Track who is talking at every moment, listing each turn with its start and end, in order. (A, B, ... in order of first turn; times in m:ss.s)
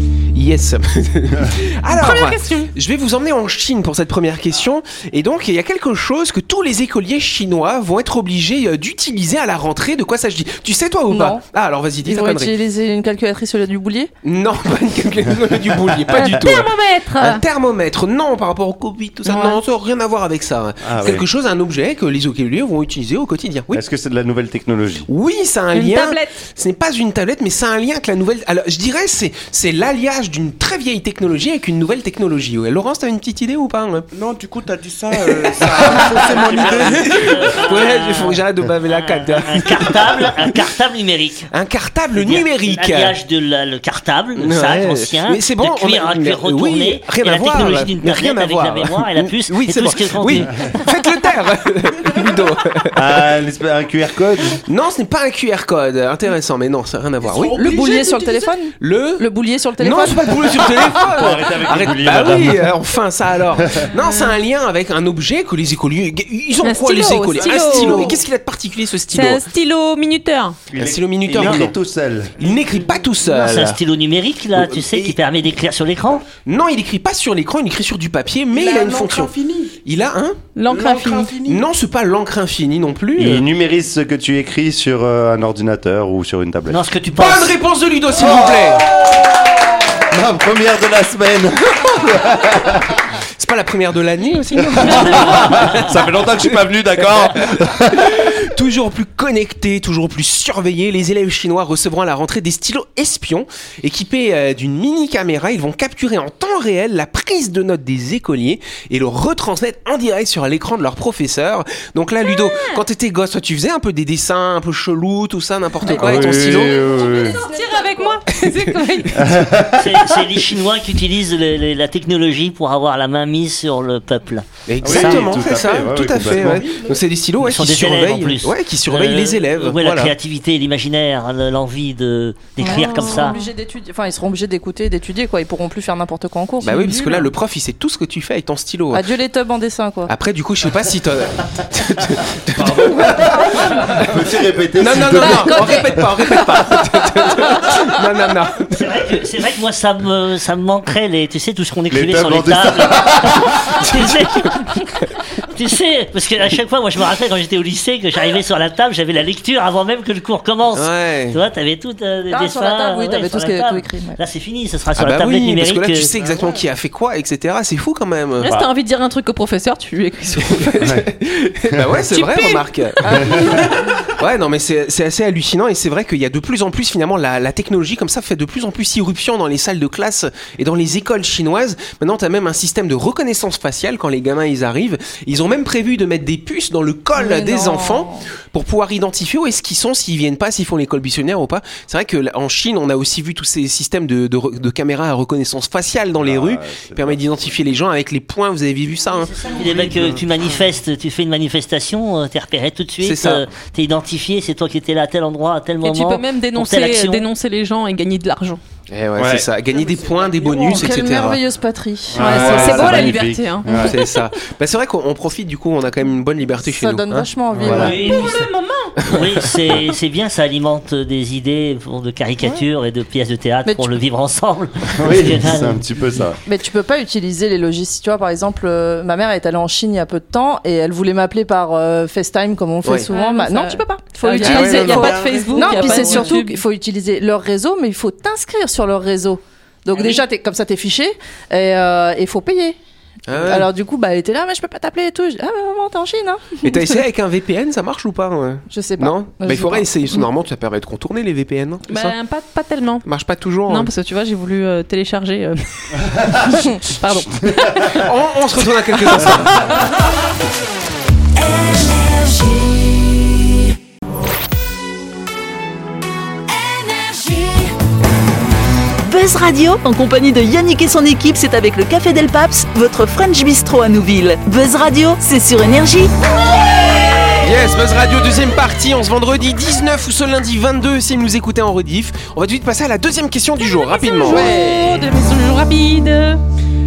0:00.3-0:12.5 A
0:01.9-0:02.7 B
0:11.1-0:11.4 C
0:12.0-0:14.1 C
0:14.2-0:23.8 A
0:16.1-0:17.4 B
0:19.2-0:19.6 B
0:20.8-0:21.2 D
0:23.7-0:25.1 D
0:25.1-0:34.1 A
0:25.7-0:26.4 B
0:34.1-0:37.5 E
0:35.3-0:40.5 A
0:35.9-0:41.5 F
0:41.5-0:43.1 A
0:42.1-0:50.8 F
0:44.4-0:53.2 A
0:52.9-0:54.6 D
0:54.6-0:58.3 A
0:57.2-0:57.8 E
0:57.5-1:00.6 C
0:58.8-0:59.3 A
0:59.8-1:09.4 A
1:00.8-1:02.7 D
1:03.6-1:03.9 D
1:04.0-1:04.4 B
1:06.6-1:08.2 B
1:07.5-1:08.1 E
1:09.1-1:10.6 B
1:10.7-1:12.4 D
1:10.7-1:11.8 A
1:12.4-1:13.8 A
1:13.2-1:16.2 F
1:14.6-1:15.2 A
1:16.4-1:19.3 A
1:18.5-1:19.7 E
1:19.8-1:20.5 A
1:20.6-1:21.4 B
1:20.7-1:21.6 E
1:21.4-1:23.5 A
1:23.1-1:26.8 D
1:26.7-1:27.6 F
1:27.1-1:28.9 A
1:28.1-1:33.0 D
1:33.4-1:36.6 A
1:34.6-1:38.4 D
1:35.0-1:35.2 B
1:37.9-1:56.8 A
1:52.2-1:52.8 B
1:55.8-1:57.4 D
1:56.0-1:58.2 C
1:56.0-1:59.3 B
1:58.3-1:59.3 A
1:59.1-2:00.2 D
1:59.7-2:05.3 F
2:04.7-2:10.1 A
2:04.8-2:06.7 D
2:07.4-2:13.4 F
2:12.6-2:17.3 C
2:12.7-2:13.5 B
2:16.6-2:19.0 A
2:18.9-2:20.1 C
2:20.1-2:29.2 A
2:22.5-2:26.5 D
2:28.7-2:34.8 F
2:31.9-2:33.7 D
2:33.8-2:34.6 A
2:35.4-2:46.1 F
2:40.7-2:41.4 A
2:42.3-2:44.2 C
2:45.0-2:48.5 A
2:48.4-2:50.9 B
2:50.4-2:53.4 A
2:52.1-2:53.7 B
2:53.0-2:54.0 C
2:54.1-3:20.2 A
3:07.1-3:08.3 C
3:16.1-3:17.6 D
3:19.1-3:27.2 F
3:23.0-3:23.4 A
3:25.8-3:28.6 B
3:28.9-3:31.4 A
3:29.2-3:29.5 D
3:30.4-3:32.3 C
3:32.1-3:34.0 D
3:32.2-3:34.2 B
3:32.2-3:33.2 A
3:33.8-3:37.9 A
3:36.6-3:38.3 C
3:37.5-3:38.0 D
3:37.6-3:38.4 F
3:37.8-3:39.0 B
3:39.0-3:39.8 A
3:39.0-3:45.8 F
3:43.6-3:43.9 C
3:45.0-3:46.4 D
3:46.4-4:02.8 C
3:52.8-3:53.1 A
3:53.1-3:56.6 B
3:54.4-3:55.2 A
3:54.8-3:56.3 D
3:59.9-4:00.2 B
4:03.3-4:03.7 A
4:03.4-4:06.7 C
4:06.6-4:12.1 A
4:08.7-4:10.2 C
4:11.9-4:13.0 B
4:13.0-4:13.9 A
4:13.7-4:18.1 B
4:17.9-4:19.7 A
4:29.0-4:36.1 G
4:37.4-4:44.6 A
4:43.6-4:46.4 B